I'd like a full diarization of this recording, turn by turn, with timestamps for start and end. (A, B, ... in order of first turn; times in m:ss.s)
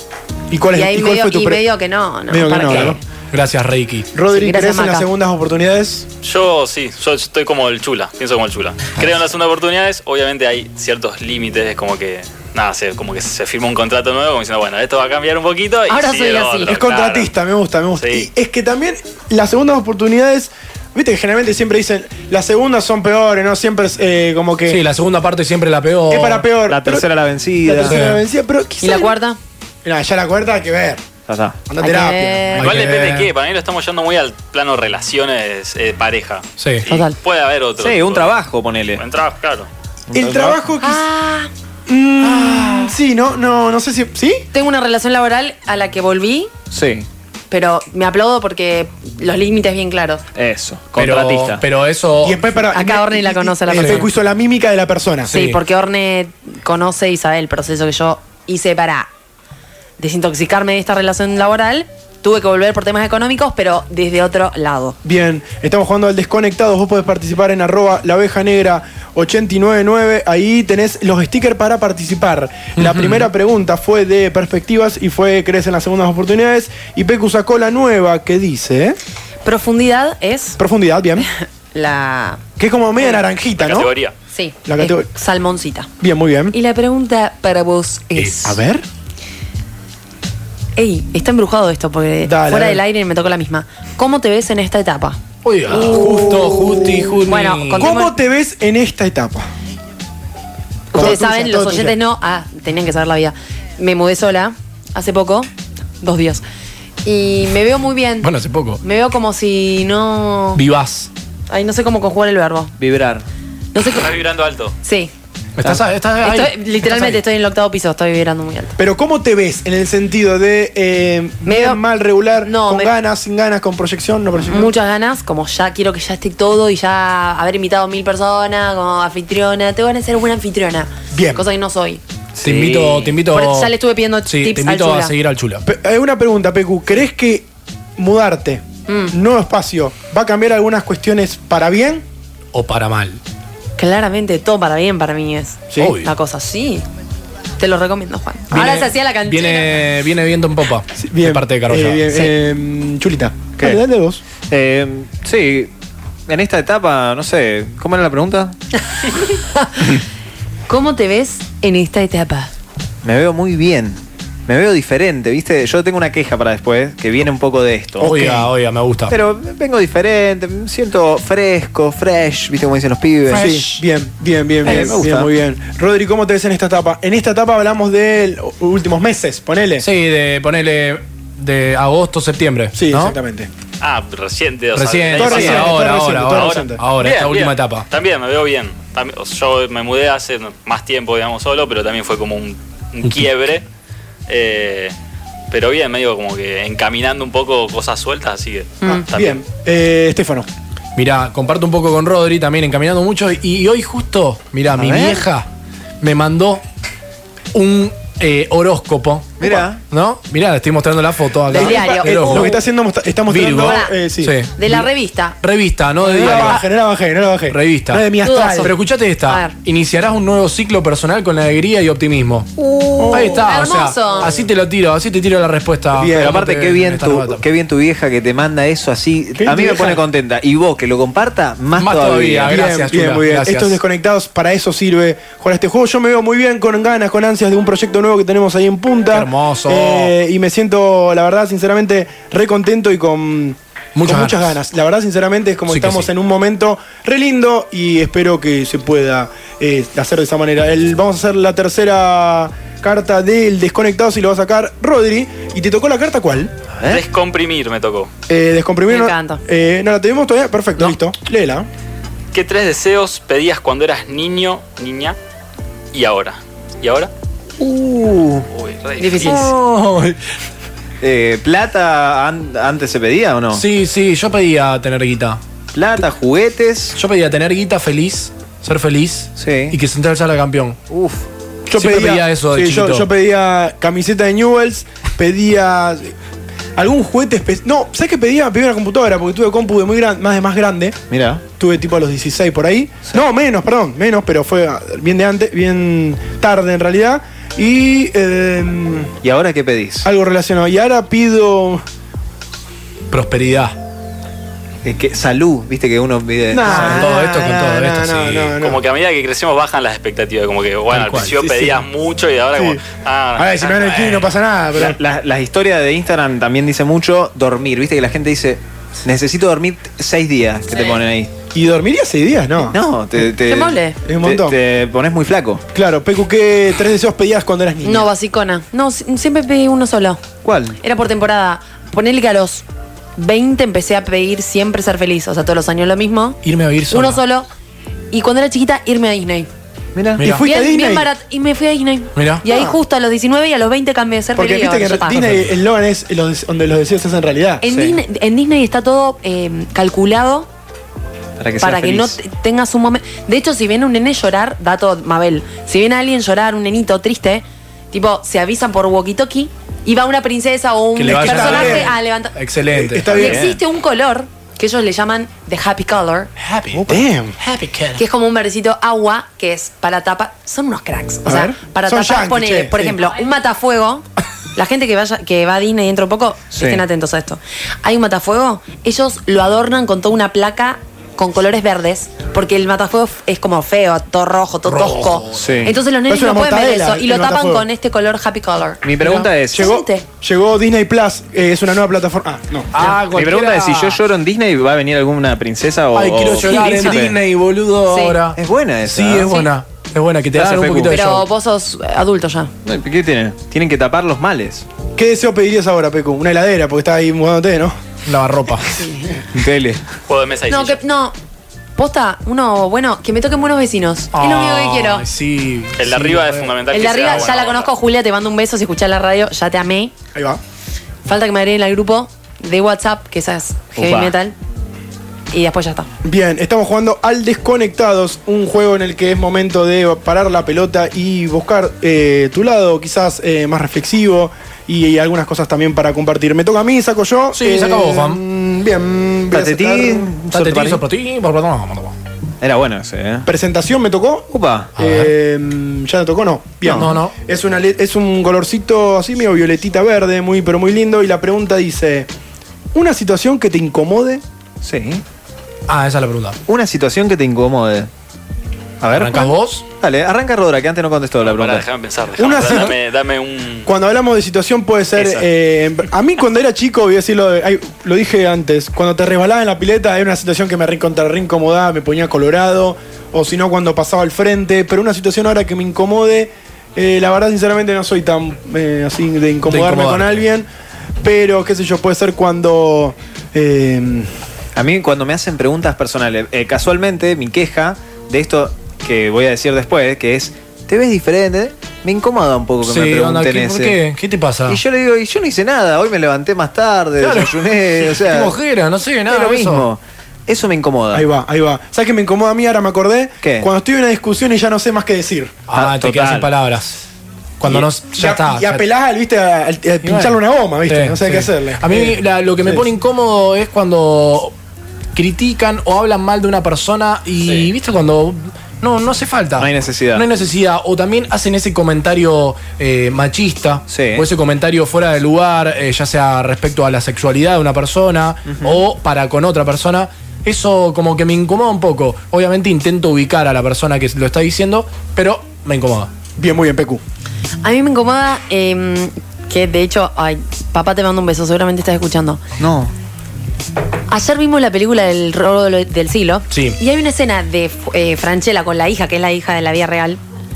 0:00.5-0:01.6 A
0:00.7-0:03.0 B
0:02.3-0:03.0 A
0:02.7-0:04.1 C
0:04.1-0:06.1 A
0:04.3-0:05.1 B
0:06.2-0:17.3 D
0:15.9-0:16.8 B
0:16.6-0:24.8 A
0:17.9-0:18.3 D
0:24.7-0:26.4 C
0:26.1-0:27.1 A
0:26.7-0:28.0 E
0:27.6-0:29.2 A
0:27.9-0:28.2 C
0:28.8-0:29.4 B
0:29.8-0:31.0 A
0:31.3-0:31.6 E
0:31.7-0:33.3 A
0:31.8-0:32.7 B
0:32.6-0:33.2 C
0:32.6-0:38.4 D
0:36.6-0:36.8 C
0:36.9-0:37.2 B
0:37.8-0:39.0 E
0:38.9-0:39.7 D
0:40.1-0:40.6 E
0:40.1-0:41.0 A
0:40.8-0:41.5 B
0:41.9-0:44.5 A
0:42.2-0:42.9 C
0:44.5-0:46.5 B
0:46.7-0:47.1 E
0:47.5-0:50.2 B
0:50.3-0:51.6 E
0:51.0-0:52.4 C
0:52.2-0:55.3 A
0:52.7-0:54.1 B
0:53.7-0:54.0 C
0:55.3-0:55.6 C
0:55.3-0:59.1 B
1:00.0-1:05.0 B
1:05.0-1:19.0 A
1:12.8-1:13.3 C
1:19.4-1:20.6 B
1:20.6-1:21.3 A
1:21.2-1:22.4 B
1:22.6-1:23.9 A
1:23.6-1:24.1 D
1:24.3-1:25.9 B
1:24.6-1:25.1 A
1:26.0-1:26.6 A
1:26.5-1:28.6 B
1:28.4-1:28.8 A
1:30.8-1:35.2 B
1:32.2-1:32.8 A
1:35.4-1:37.9 C
1:35.7-1:37.1 A
1:35.8-1:36.0 B
1:37.2-1:38.1 B
1:37.8-1:39.5 A
1:40.9-1:42.0 A
1:40.9-1:45.5 B
1:46.0-1:46.4 B
1:47.0-1:48.3 B
1:48.2-1:48.8 C
1:48.8-1:50.6 B
1:50.6-1:51.1 C
1:51.5-1:52.7 B
1:52.8-1:53.2 E
1:53.7-1:54.2 B
1:53.9-1:54.7 D
1:54.8-1:55.1 B
1:55.6-1:57.2 C
1:56.2-1:58.8 B
1:58.8-2:04.7 A
2:01.4-2:01.8 B
2:02.4-2:02.9 B
2:04.5-2:12.0 B
2:11.1-2:11.4 A
2:12.3-2:13.2 E
2:12.4-2:13.7 C
2:13.3-2:15.1 B
2:14.2-2:15.6 C
2:15.6-2:17.4 A
2:18.0-2:22.0 A
2:18.9-2:19.1 B
2:22.5-2:23.2 C
2:23.8-2:26.8 B
2:25.7-2:26.0 A
2:25.8-2:26.1 C
2:27.6-2:29.7 B
2:28.5-2:32.0 C
2:31.0-2:34.2 A
2:34.5-2:35.7 E
2:36.3-2:38.5 E
2:39.3-2:40.0 B
2:40.7-2:42.5 B
2:43.0-2:48.2 E
2:48.0-2:48.5 A
2:48.0-2:49.1 C
2:49.1-2:53.4 E
2:53.3-2:53.8 C
2:53.3-2:59.8 A
2:54.6-2:55.3 E
2:59.8-3:03.2 C
3:02.7-3:03.5 A
3:03.8-3:13.6 D
3:04.7-3:07.9 C
3:05.1-3:06.8 A
3:14.3-3:14.9 D
3:15.5-3:19.4 D
3:18.8-3:19.1 B
3:18.8-3:20.5 A
3:21.0-3:25.5 C
3:24.7-3:25.2 E
3:26.0-3:26.6 C
3:27.5-3:32.5 C
3:29.4-3:29.8 E
3:31.5-3:32.6 B
3:31.5-3:34.4 A
3:33.3-3:34.9 C
3:33.5-3:33.9 B
3:34.6-3:35.4 B
3:35.4-3:36.7 C
3:36.0-3:38.7 A
3:37.5-3:42.5 C
3:38.2-3:39.6 B
3:42.6-3:44.3 B
3:43.0-3:43.5 A
3:43.1-3:47.4 C
3:45.9-3:46.4 A
3:46.1-3:52.6 E
3:49.4-3:50.0 A
3:51.8-3:53.8 C
3:52.4-4:16.5 A
3:59.1-4:00.1 C
4:03.9-4:04.5 C
4:05.7-4:06.1 C
4:16.9-4:18.1 D
4:18.3-4:21.7 A
4:18.9-4:19.4 B
4:22.3-4:25.2 D
4:25.9-4:27.1 D
4:27.6-4:28.4 E
4:28.5-4:29.4 D
4:29.0-4:29.5 B
4:29.2-4:29.6 E
4:29.5-4:30.1 C
4:31.0-4:33.6 E
4:33.5-4:35.4 C
4:35.7-4:37.0 E
4:36.9-4:40.8 C
4:39.4-4:39.8 E
4:40.9-4:41.2 E
4:41.6-4:46.1 A
4:41.8-4:43.1 C
4:46.8-4:51.0 A
4:51.1-4:51.4 E
4:51.6-4:59.1 A
4:59.2-5:00.1 E
5:00.0-5:01.8 A
5:03.1-5:03.8 C
5:04.8-5:07.1 E
5:06.5-5:08.8 A
5:06.6-5:08.6 C
5:08.6-5:14.2 D
5:10.9-5:11.5 C
5:11.3-5:11.8 A
5:12.5-5:12.8 A
5:13.4-5:15.0 A
5:14.8-5:21.3 E
5:21.5-5:22.8 A
5:22.7-5:25.6 E
5:23.4-5:24.0 B
5:24.0-5:24.6 A
5:25.7-5:28.1 A
5:27.8-5:30.2 B
5:30.4-5:30.8 E
5:30.8-5:32.6 B
5:33.2-5:37.5 B
5:36.4-5:37.2 C
5:38.1-5:39.5 B
5:39.9-5:40.2 E
5:40.2-5:40.4 C
5:40.2-5:41.1 A
5:40.4-5:45.2 B
5:42.2-5:42.4 C
5:44.3-5:47.6 A
5:47.6-5:50.5 B
5:47.7-5:48.0 E
5:51.4-5:52.2 E
5:51.6-6:02.3 B
6:01.0-6:03.1 C
6:01.1-6:01.9 A
6:02.7-6:03.4 A
6:03.1-6:06.3 B
6:03.2-6:03.6 E
6:06.4-6:08.0 C
6:06.9-6:07.4 A
6:08.0-6:14.0 B
6:11.2-6:13.0 A
6:14.5-6:28.8 B
6:16.5-6:16.8 E
6:24.6-6:25.6 C
6:25.4-6:25.7 E
6:26.1-6:27.6 A
6:28.8-6:29.7 E
6:29.0-6:29.3 C
6:29.5-6:32.7 A
6:29.5-6:30.0 B
6:32.7-6:34.0 C
6:32.8-6:37.2 E
6:35.9-6:41.3 C
6:36.5-6:36.9 B
6:37.8-6:38.2 B
6:38.4-6:39.4 E
6:40.3-6:41.0 E
6:40.9-6:42.5 B
6:42.6-6:44.6 E
6:45.0-6:47.8 A
6:48.0-6:48.7 C
6:48.7-6:49.2 B
6:49.3-6:49.8 E
6:50.1-6:50.8 D
6:50.5-6:51.1 B
6:51.8-6:55.0 B
6:54.1-6:56.6 C
6:55.8-6:57.7 D
6:56.7-6:59.9 B
7:00.1-7:00.4 A
7:01.0-7:04.3 B
7:03.7-7:04.1 E
7:05.3-7:05.9 B
7:06.0-7:20.1 A
7:17.3-7:18.2 C
7:19.3-7:20.8 E
7:20.3-7:21.9 C
7:22.4-7:23.2 E
7:23.2-7:32.1 A
7:24.3-7:24.7 E
7:24.8-7:25.1 C
7:26.6-7:26.9 E
7:26.7-7:27.1 C
7:32.7-7:34.2 A
7:34.6-7:35.0 E
7:35.7-7:36.4 C
7:36.5-7:37.9 E
7:38.8-7:41.7 E
7:38.9-7:39.6 C
7:41.2-7:43.7 D
7:42.2-7:42.8 A
7:43.6-8:00.5 A
7:45.0-7:45.2 E
7:59.5-8:00.2 C
8:01.0-8:04.1 A
8:04.6-8:13.8 E
8:12.6-8:14.6 C
8:14.5-8:18.4 E
8:17.0-8:19.6 C
8:19.1-8:21.0 E
8:20.9-8:25.4 A
8:23.2-8:23.5 E
8:25.5-8:26.8 C
8:25.5-8:26.3 E
8:27.4-8:28.6 C
8:27.5-8:32.6 A
8:29.8-8:34.3 C
8:34.9-8:55.9 C
8:37.2-8:37.5 D
8:39.4-8:40.0 E
8:43.7-8:44.1 E
8:48.3-8:48.6 E
8:56.2-8:56.8 A
8:57.4-9:02.2 B
9:02.4-9:02.7 E
9:03.9-9:10.0 B
9:06.3-9:06.6 C